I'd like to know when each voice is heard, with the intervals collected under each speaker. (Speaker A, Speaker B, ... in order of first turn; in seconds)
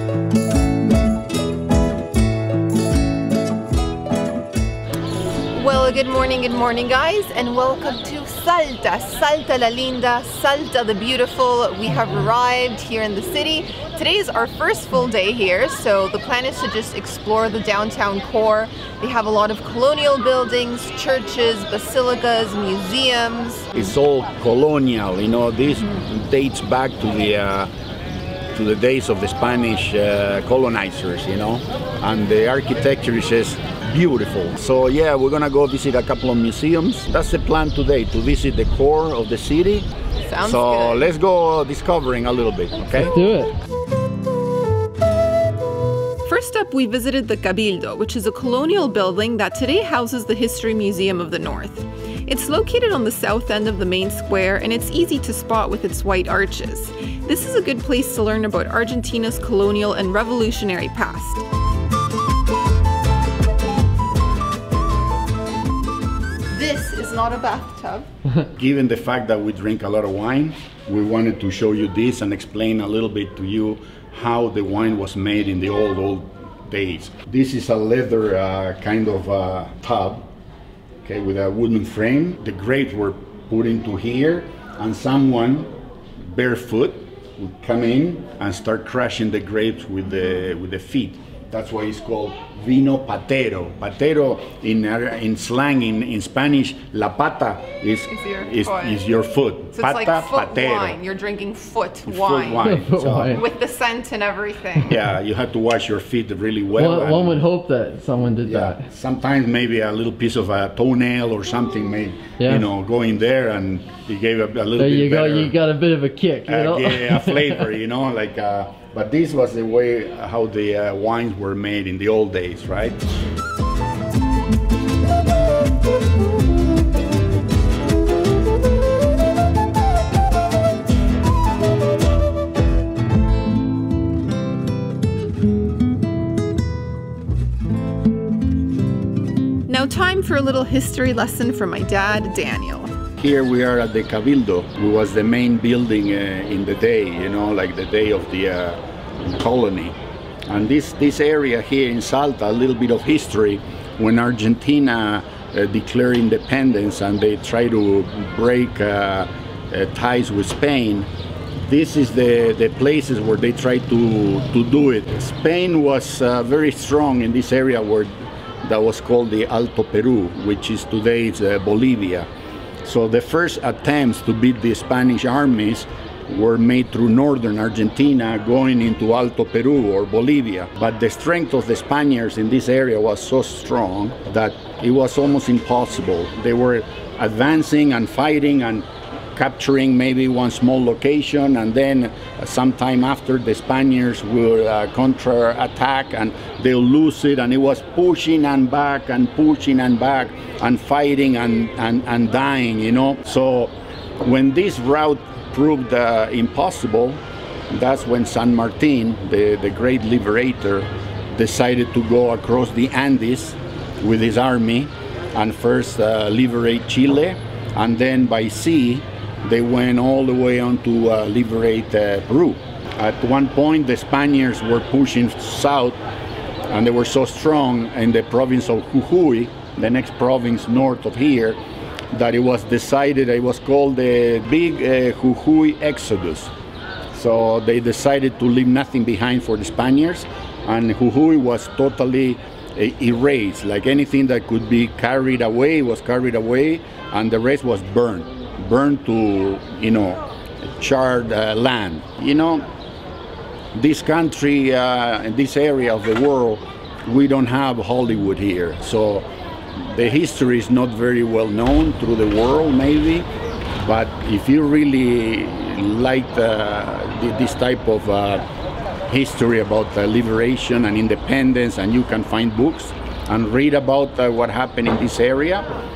Speaker A: 5.5-23.9, 40.2-41.1, 46.2-61.4, 66.5-68.1, 98.1-99.1, 99.7-102.7, 103.3-105.0, 139.7-142.9
Speaker B: 23.7-27.7, 28.5-39.9, 40.4-43.1, 68.5-80.3, 81.0-101.0, 102.1-103.4, 104.8-107.4, 108.4-115.5, 116.5-123.0, 143.2-161.1, 161.6-172.3, 172.8-226.0, 226.7-231.6, 232.1-236.5, 237.1-252.6, 253.7-263.3, 263.8-268.4, 269.1-275.7
Speaker C: 42.8-43.5, 102.6-103.4, 106.8-108.8, 112.4-112.7, 114.8-117.7